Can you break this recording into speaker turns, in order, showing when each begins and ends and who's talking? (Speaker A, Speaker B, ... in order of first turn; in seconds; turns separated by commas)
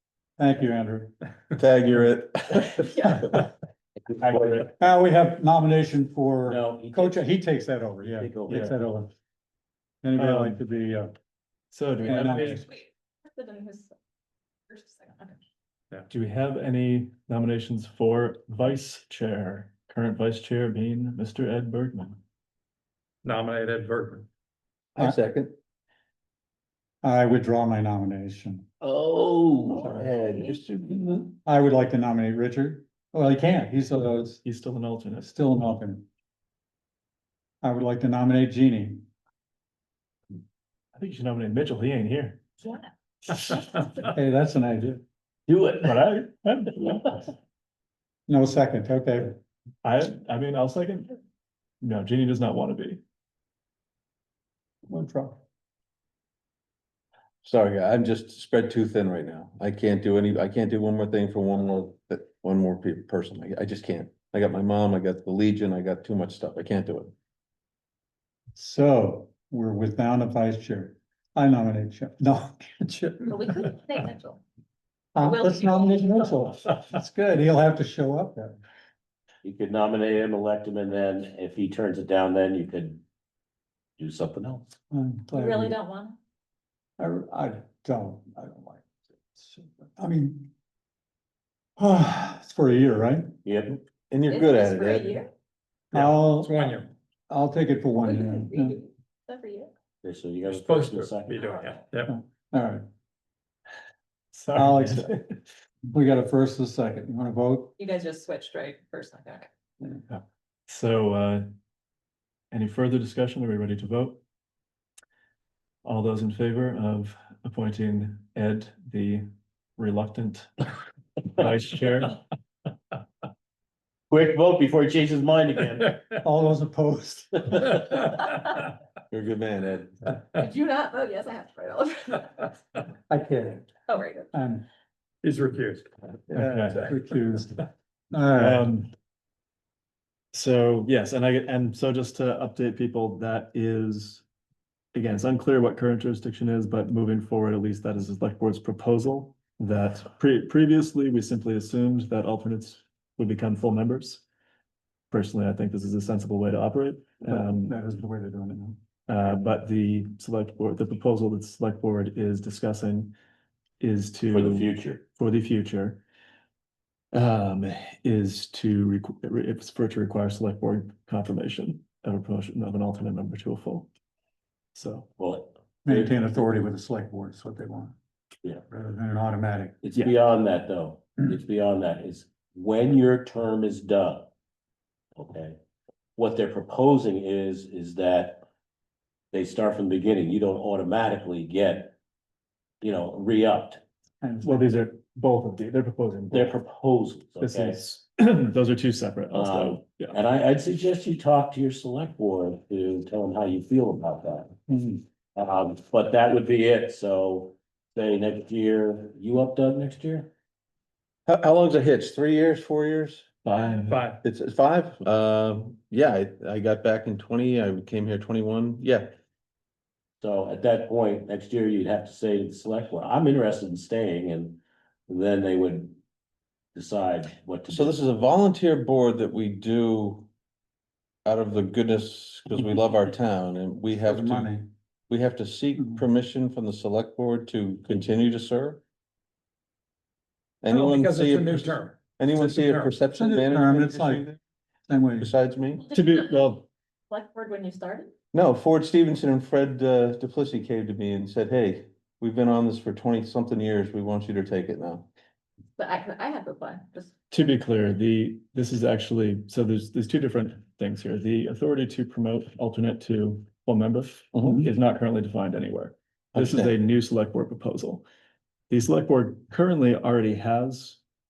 Speaker A: 0.4-1.1, Speaker B: 1.5-3.4, Speaker A: 4.2-9.1, Speaker C: 6.5-7.3, Speaker C: 8.2-8.8, Speaker A: 10.0-11.1, Speaker D: 10.2-10.6, Speaker D: 11.7-12.6, Speaker A: 12.0-12.6, Speaker E: 12.0-13.9, Speaker E: 14.7-15.4, Speaker D: 16.1-22.2, Speaker F: 23.2-24.2, Speaker B: 24.9-25.5, Speaker A: 27.0-28.7, Speaker B: 28.8-31.3, Speaker A: 29.7-30.0, Speaker A: 31.4-34.4, Speaker D: 34.4-35.5, Speaker A: 35.2-36.0, Speaker A: 37.6-39.0, Speaker D: 40.9-42.4, Speaker A: 44.0-45.0, Speaker C: 45.5-45.9, Speaker D: 45.8-47.3, Speaker A: 48.3-49.4, Speaker D: 49.8-51.1, Speaker D: 51.8-53.0, Speaker A: 54.9-55.4, Speaker B: 57.4-67.1, Speaker A: 68.5-73.8, Speaker E: 73.2-74.4, Speaker A: 75.1-78.6, Speaker E: 75.2-76.4, Speaker C: 79.4-83.0, Speaker C: 84.0-84.7, Speaker A: 84.9-85.8, Speaker E: 85.3-86.2, Speaker A: 87.0-88.8, Speaker A: 89.3-90.5, Speaker A: 91.8-93.3, Speaker C: 93.4-93.7, Speaker B: 93.7-95.2, Speaker E: 94.2-95.3, Speaker F: 95.9-96.9, Speaker A: 95.9-96.6, Speaker A: 97.3-98.8, Speaker E: 98.0-99.7, Speaker C: 100.0-101.4, Speaker F: 100.5-102.1, Speaker E: 101.3-101.8, Speaker A: 102.1-102.8, Speaker D: 104.3-105.4, Speaker A: 104.5-105.1, Speaker A: 105.8-107.8, Speaker E: 107.8-109.5, Speaker D: 110.1-111.5, Speaker D: 112.5-114.2, Speaker D: 115.8-120.6, Speaker D: 121.2-122.2, Speaker C: 124.1-126.0, Speaker A: 126.2-127.8, Speaker B: 129.1-130.0, Speaker E: 130.3-132.5, Speaker A: 133.1-133.7, Speaker E: 133.9-134.3, Speaker A: 134.3-134.7, Speaker F: 135.2-135.9, Speaker A: 136.3-138.7, Speaker D: 136.3-136.9, Speaker D: 138.3-138.9, Speaker D: 140.3-144.2, Speaker D: 144.9-154.2, Speaker D: 155.1-157.8, Speaker A: 157.2-158.8, Speaker D: 159.1-163.1, Speaker D: 163.8-166.0, Speaker C: 164.3-165.0, Speaker D: 167.1-173.9, Speaker D: 174.7-175.1, Speaker C: 175.2-176.2, Speaker A: 175.8-177.9, Speaker A: 178.7-179.8, Speaker C: 179.8-184.3, Speaker C: 185.2-185.6, Speaker C: 186.2-188.4, Speaker C: 189.3-191.9, Speaker C: 192.8-193.8, Speaker A: 194.2-194.9, Speaker D: 194.4-196.6, Speaker C: 196.3-197.8, Speaker D: 197.4-200.2, Speaker C: 199.3-204.6, Speaker A: 204.7-204.9, Speaker C: 205.3-210.3, Speaker B: 211.3-213.2, Speaker D: 213.4-214.0, Speaker F: 213.9-214.2, Speaker B: 214.2-219.1, Speaker C: 220.2-226.0, Speaker C: 226.7-227.9, Speaker B: 227.7-230.3, Speaker B: 231.2-234.5, Speaker A: 233.9-234.7, Speaker B: 235.1-238.8, Speaker B: 240.6-244.4, Speaker F: 240.7-243.0, Speaker A: 243.1-244.2, Speaker A: 244.9-245.3, Speaker B: 245.2-245.8, Speaker D: 245.9-246.7, Speaker E: 245.9-246.2, Speaker E: 247.1-248.1, Speaker B: 248.3-255.1, Speaker E: 255.8-257.1, Speaker D: 257.3-268.0, Speaker B: 264.3-264.7, Speaker B: 266.3-266.8, Speaker D: 268.7-271.0